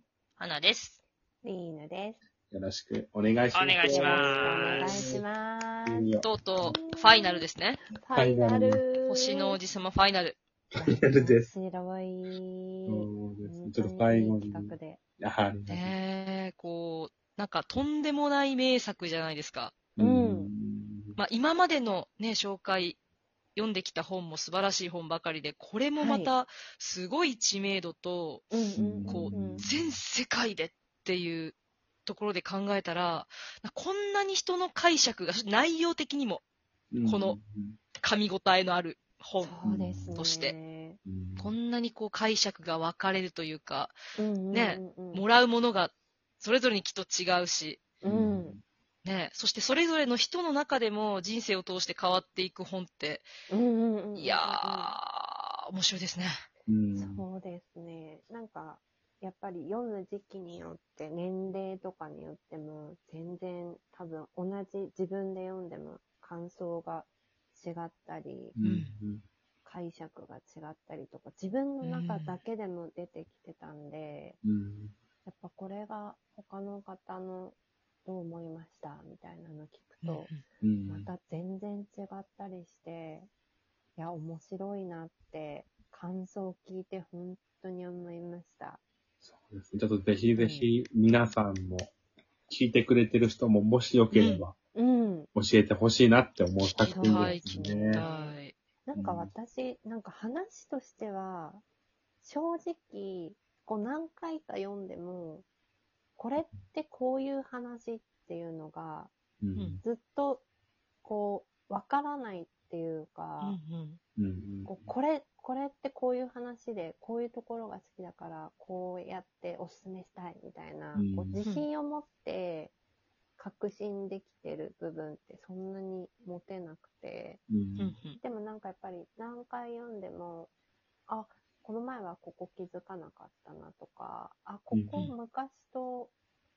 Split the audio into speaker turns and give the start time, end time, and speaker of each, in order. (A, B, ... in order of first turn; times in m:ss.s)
0:00.4-0:01.0 A
0:01.4-0:02.2 B
0:02.5-0:05.2 C
0:03.5-0:05.1 A
0:03.9-0:06.1 B
0:05.8-0:06.7 C
0:06.2-0:07.8 A
0:06.6-0:09.6 B
0:08.1-0:08.8 C
0:09.0-0:10.4 A
0:10.8-0:11.5 C
0:10.8-0:15.0 B
0:12.9-0:15.9 C
0:15.7-0:19.7 A
0:20.0-0:21.2 C
0:20.0-0:20.5 B
0:21.2-0:23.0 A
0:23.5-0:36.4 A
0:26.0-0:26.3 B
0:28.5-0:29.6 B
0:28.7-0:30.0 C
0:36.9-0:37.8 C
0:37.0-0:37.4 A
0:38.0-0:39.6 A
0:39.4-0:41.0 B
0:39.6-0:40.2 C
0:40.2-0:40.5 A
0:41.0-0:41.5 C
0:41.4-0:44.0 A
0:44.2-0:45.2 B
0:44.5-0:47.8 A
0:48.0-0:48.6 B
0:48.0-0:48.6 C
0:49.0-0:53.3 A
0:53.5-0:54.9 B
0:54.2-0:56.3 A
0:56.7-0:57.2 C
0:57.0-1:08.5 B
1:08.5-1:09.2 C
1:08.6-1:08.9 A
1:09.6-1:14.4 B
1:11.8-1:12.4 A
1:14.4-1:14.9 C
1:15.2-1:20.3 B
1:20.0-1:20.4 A
1:20.6-1:21.1 C
1:20.9-1:23.3 B
1:24.0-1:28.8 B
1:29.2-1:31.9 C
1:30.3-1:30.7 B
1:32.5-1:34.5 C
1:34.1-1:34.4 A
1:34.7-1:35.3 B
1:35.3-1:38.0 C
1:36.8-1:38.5 A
1:36.8-1:41.6 B
1:38.9-1:39.3 C
1:42.2-1:45.4 B
1:46.2-1:49.1 B
1:49.4-1:49.8 C
1:49.8-1:50.4 B
1:51.0-1:53.6 B
1:53.4-1:54.0 A
1:54.2-1:54.9 C
1:54.6-2:02.7 B
2:00.9-2:01.4 C
2:03.4-2:07.4 B
2:07.5-2:07.9 C
2:07.8-2:08.2 A
2:08.2-2:10.5 B
2:11.1-2:16.1 B
2:14.7-2:15.0 C